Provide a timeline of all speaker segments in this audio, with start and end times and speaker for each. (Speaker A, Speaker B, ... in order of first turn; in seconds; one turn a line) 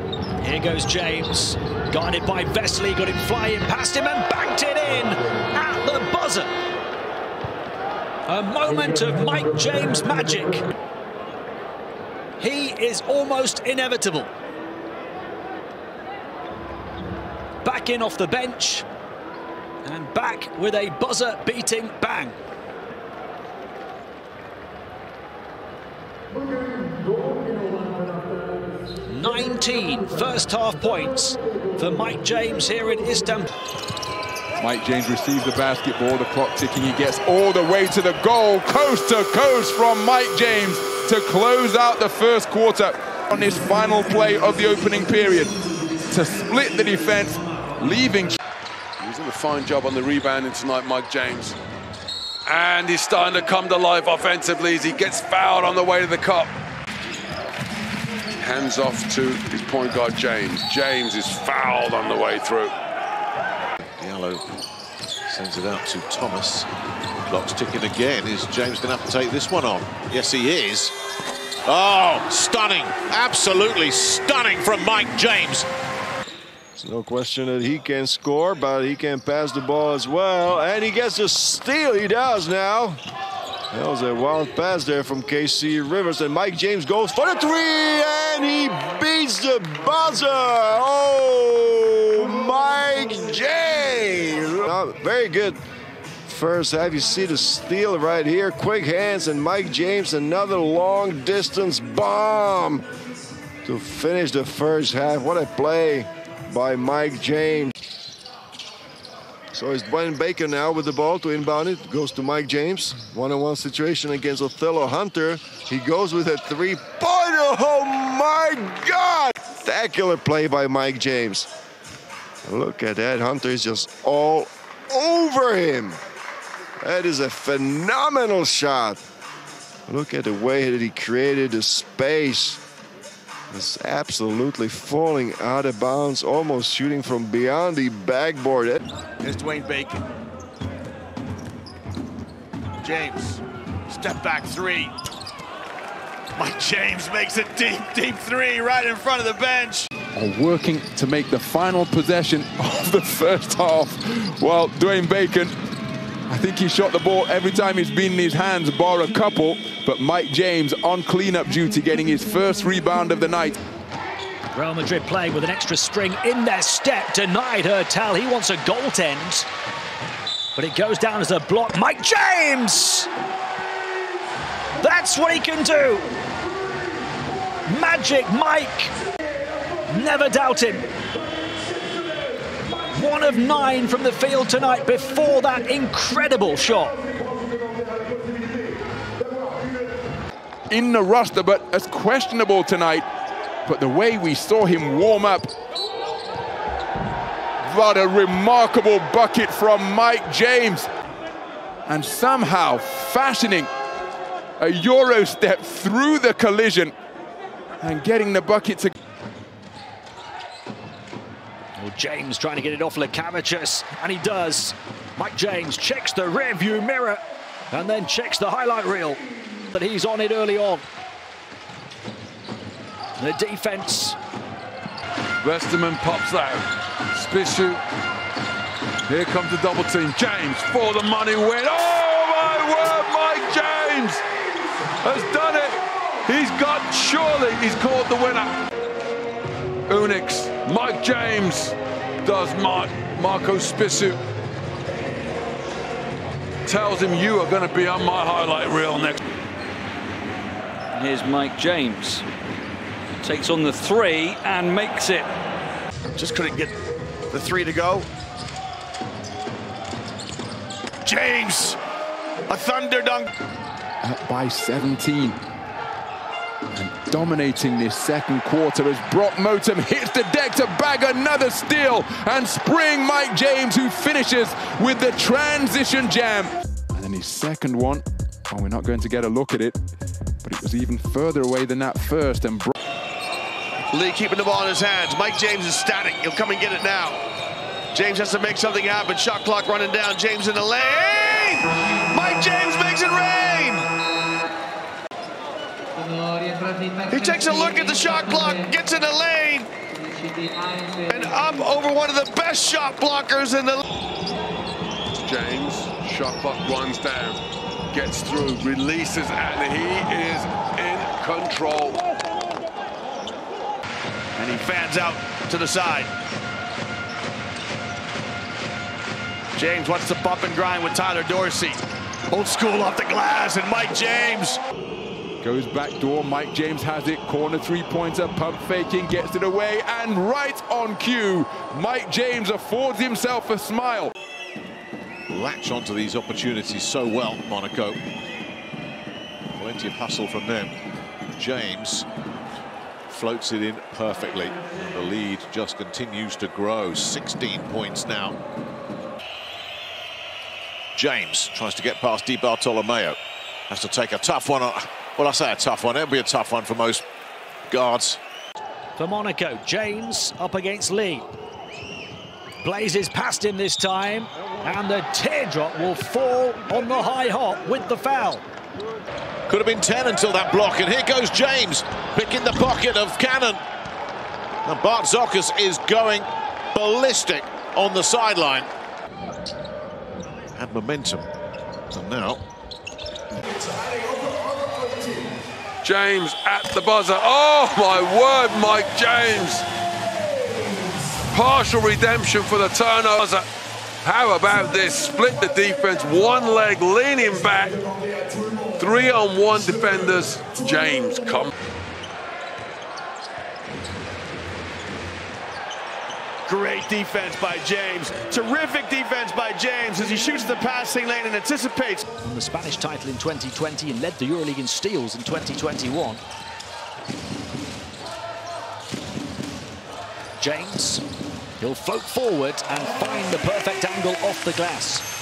Speaker A: 0.4-6.5
Speaker A: 8.3-10.6
Speaker A: 12.4-14.3
Speaker A: 17.6-18.9
Speaker A: 19.8-22.4
Speaker A: 29.1-33.5
Speaker B: 34.6-45.6
Speaker B: 46.1-48.4
Speaker C: 49.0-51.6
Speaker C: 52.5-56.5
Speaker C: 58.4-62.7
Speaker D: 63.8-64.4
Speaker D: 65.3-66.7
Speaker D: 67.2-70.9
Speaker D: 71.7-75.7
Speaker E: 76.8-83.0
Speaker E: 83.7-95.6
Speaker E: 96.2-102.8
Speaker E: 103.7-107.8
Speaker E: 109.5-121.5
Speaker E: 122.5-126.0
Speaker E: 126.8-129.0
Speaker E: 129.9-132.6
Speaker E: 133.5-138.8
Speaker F: 139.2-140.0
Speaker F: 142.8-144.9
Speaker F: 146.3-149.9
Speaker B: 150.2-155.6
Speaker B: 156.3-163.6
Speaker A: 164.5-169.5
Speaker A: 170.6-173.1
Speaker A: 174.8-176.2
Speaker A: 177.7-178.9
Speaker A: 179.9-180.9
Speaker A: 182.8-187.0
Speaker B: 190.7-193.1
Speaker B: 193.7-195.5
Speaker B: 197.6-200.9
Speaker B: 201.9-203.7
Speaker B: 204.6-206.9
Speaker B: 207.8-208.9
Speaker A: 211.8-220.8
Speaker A: 223.2-224.2
Speaker C: 225.4-227.8
Speaker C: 229.1-234.2
Speaker C: 235.0-238.6
Speaker C: 239.9-244.2
Speaker C: 246.7-249.2
Speaker G: 250.9-252.2
Speaker G: 253.2-255.3
Speaker F: 256.2-256.8
Speaker F: 257.3-258.1
Speaker F: 261.1-261.8
Speaker F: 262.5-263.3
Speaker B: 264.0-265.4
Speaker B: 266.7-279.8
Speaker B: 280.4-282.7
Speaker F: 283.9-287.2
Speaker F: 287.9-293.9
Speaker F: 297.1-299.7
Speaker F: 301.0-303.8
Speaker C: 305.1-312.0
Speaker F: 314.4-316.1
Speaker F: 319.6-324.6
Speaker B: 325.4-334.1
Speaker D: 335.3-338.0
Speaker D: 339.5-340.8
Speaker D: 341.4-342.1
Speaker D: 343.1-348.4
Speaker D: 350.9-353.2
Speaker D: 353.7-357.1
Speaker D: 357.7-358.2
Speaker A: 359.0-361.3
Speaker A: 362.6-368.4
Speaker D: 369.5-373.6
Speaker D: 374.6-378.7
Speaker D: 380.5-381.3
Speaker D: 381.9-382.4
Speaker C: 385.8-389.7
Speaker C: 391.3-393.5
Speaker C: 394.0-397.8
Speaker C: 398.7-401.5
Speaker F: 406.5-412.0
Speaker A: 412.2-416.2
Speaker A: 420.4-421.0
Speaker A: 421.6-425.1